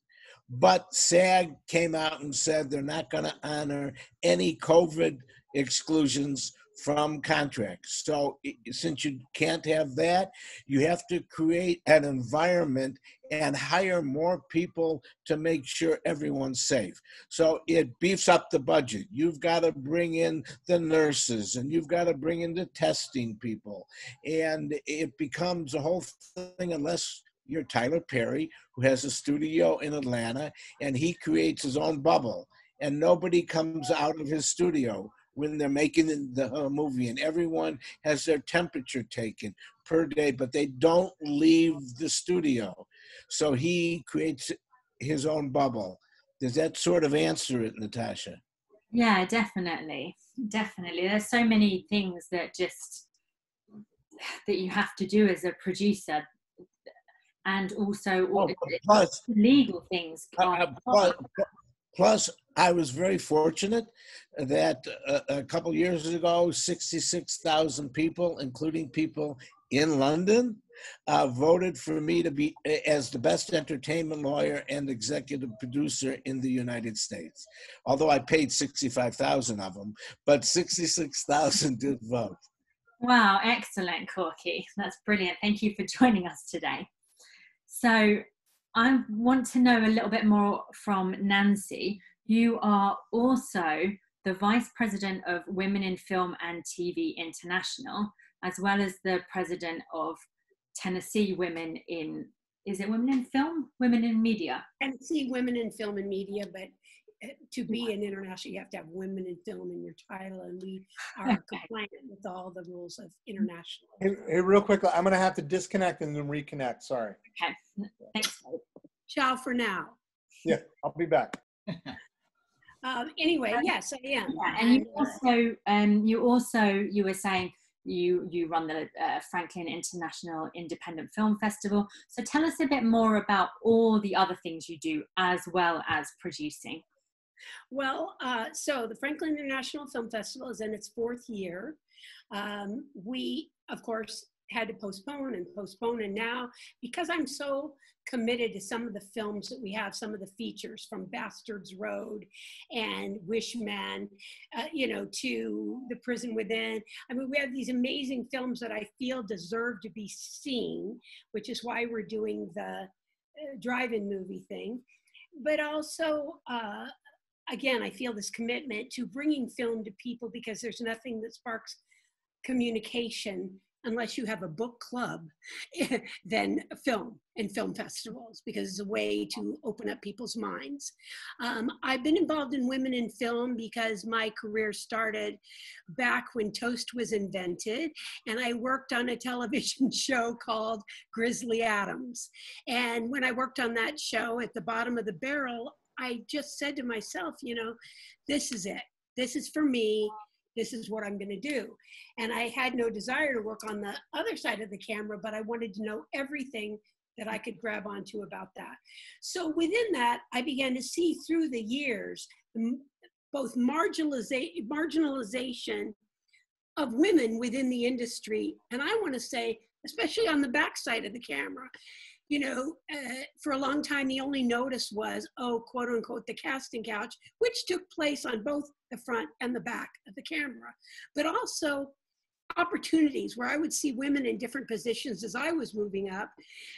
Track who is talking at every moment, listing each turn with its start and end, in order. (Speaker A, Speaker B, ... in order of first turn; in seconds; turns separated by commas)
Speaker A: 0.5-48.4, Speaker B: 48.9-53.1, Speaker B: 54.2-56.2, Speaker B: 57.5-61.2, Speaker A: 58.3-59.2, Speaker A: 60.4-82.4, Speaker B: 83.0-86.9, Speaker B: 87.7-88.2, Speaker B: 88.8-100.2, Speaker B: 100.8-104.7, Speaker C: 104.8-114.1, Speaker B: 111.3-111.6, Speaker D: 114.0-117.2, Speaker B: 117.4-118.6, Speaker C: 119.1-120.0, Speaker D: 120.5-121.4, Speaker C: 122.8-125.2, Speaker B: 124.3-136.8, Speaker C: 137.7-141.8, Speaker C: 142.3-164.8, Speaker C: 165.4-166.9, Speaker C: 167.5-171.8, Speaker C: 172.4-185.4, Speaker C: 185.9-197.8, Speaker C: 198.3-215.9, Speaker C: 216.8-221.7, Speaker C: 222.3-231.9, Speaker C: 232.5-236.3